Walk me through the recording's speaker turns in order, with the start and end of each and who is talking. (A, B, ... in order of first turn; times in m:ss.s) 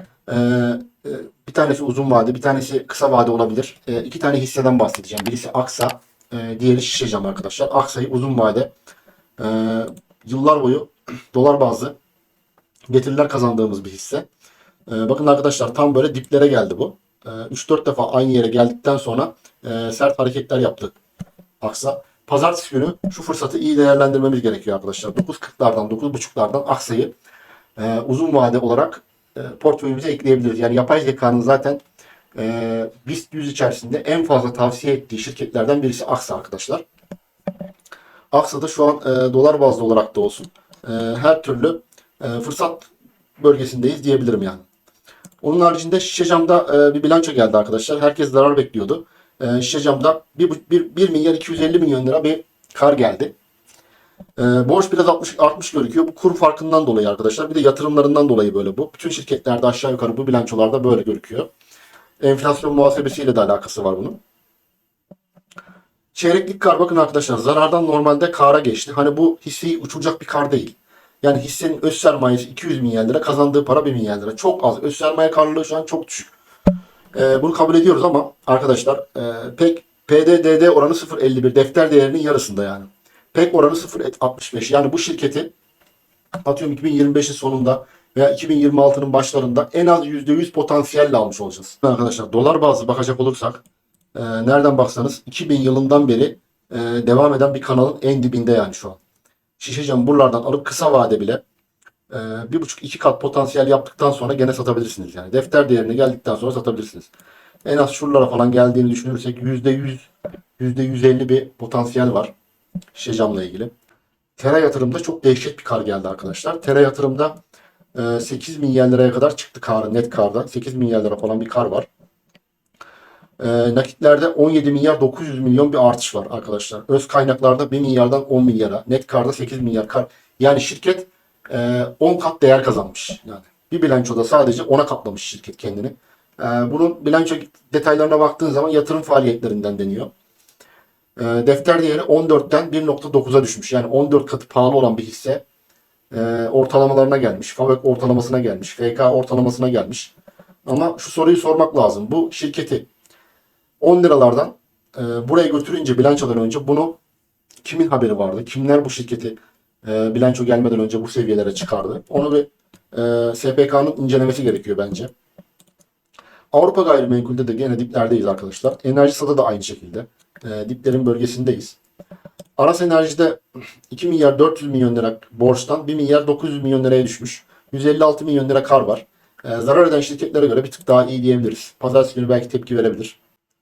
0:00.3-0:08.7 A
0:09.4-0:11.9 A
0:12.9-0:14.3 A
0:14.9-0:20.9 A
0:21.6-0:27.1 A
0:27.8-0:31.8 A
0:32.3-0:36.8 A
0:38.3-0:44.6 A
0:45.4-0:53.3 A
0:54.4-1:01.5 A
1:02.2-1:04.2 A
1:06.1-1:16.3 A
1:17.1-1:25.5 A
1:26.4-1:33.6 A
1:34.1-1:39.0 A
1:39.6-1:41.4 A
1:42.1-1:47.1 A
1:47.6-1:52.3 A
1:52.9-1:53.7 A
1:54.4-1:57.4 A
1:57.9-2:01.9 A
2:03.4-2:20.1 A
2:21.2-2:25.4 A
2:26.1-2:30.1 A
2:30.6-2:32.8 A
2:33.8-2:37.0 A
2:37.6-2:45.1 A
2:46.5-2:51.8 A
2:52.6-3:03.2 A